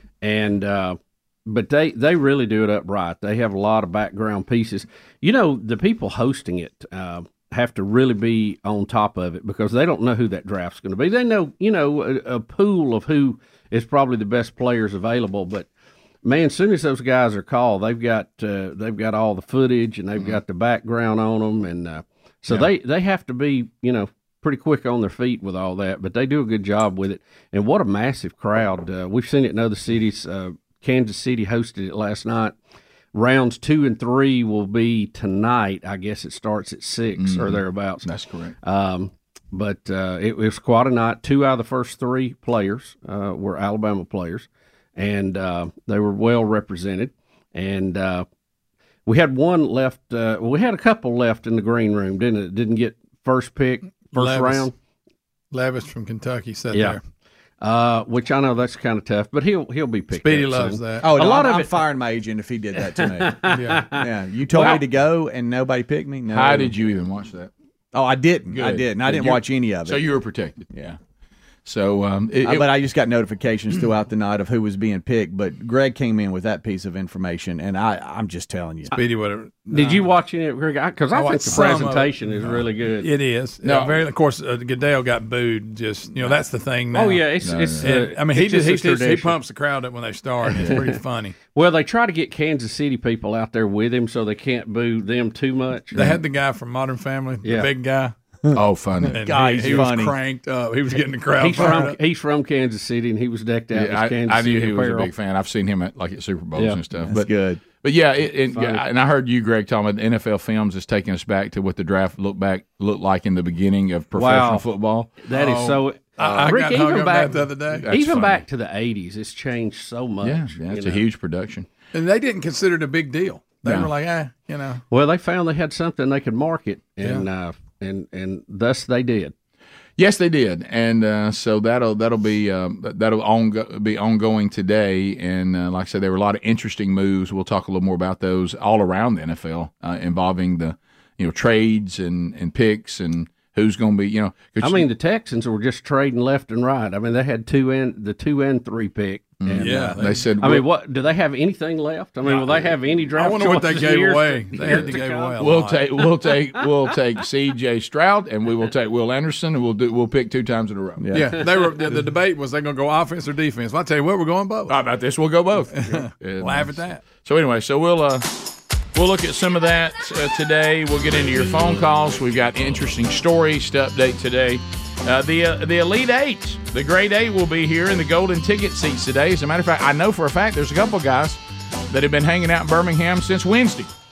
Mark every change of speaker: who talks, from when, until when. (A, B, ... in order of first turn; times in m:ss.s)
0:00.2-0:15.7 A
0:16.2-0:32.6 A
0:33.1-0:38.0 A
0:37.2-0:38.6 B
0:38.6-0:48.2 A
0:49.0-0:54.7 A
0:54.1-0:54.7 C
0:55.5-0:57.0 C
0:56.7-0:57.0 A
0:57.6-1:01.7 A
1:00.2-1:01.1 C
1:01.0-1:06.7 D
1:02.8-1:04.8 A
1:03.5-1:03.8 C
1:06.3-1:07.5 B
1:07.9-1:10.0 D
1:08.5-1:10.9 B
1:11.6-1:12.7 B
1:12.4-1:18.9 D
1:18.9-1:20.1 C
1:19.7-1:23.1 A
1:21.1-1:27.3 C
1:23.6-1:24.0 B
1:26.9-1:29.4 A
1:27.4-1:27.9 B
1:27.8-1:31.4 C
1:30.4-1:30.9 A
1:31.5-1:36.0 A
1:35.9-1:38.1 C
1:37.4-1:37.7 A
1:38.5-1:39.2 B
1:39.0-1:40.2 D
1:39.1-1:42.0 C
1:41.4-1:45.1 A
1:43.7-1:47.3 B
1:47.0-1:47.6 D
1:47.8-1:55.1 B
1:48.5-1:48.8 A
1:54.1-1:54.6 A
1:55.2-2:01.0 A
1:55.3-1:58.2 C
1:57.9-1:58.4 B
2:00.2-2:01.7 B
2:01.9-2:04.8 C
2:04.9-2:09.3 A
2:07.0-2:07.2 C
2:10.0-2:24.9 B
2:24.6-2:35.5 A
2:29.4-2:30.6 B
2:29.6-2:30.2 C
2:32.2-2:35.8 C
2:35.4-2:41.1 B
2:41.0-2:41.3 D
2:41.1-2:44.7 C
2:44.7-2:48.3 B
2:45.7-2:47.0 C
2:48.9-3:03.9 B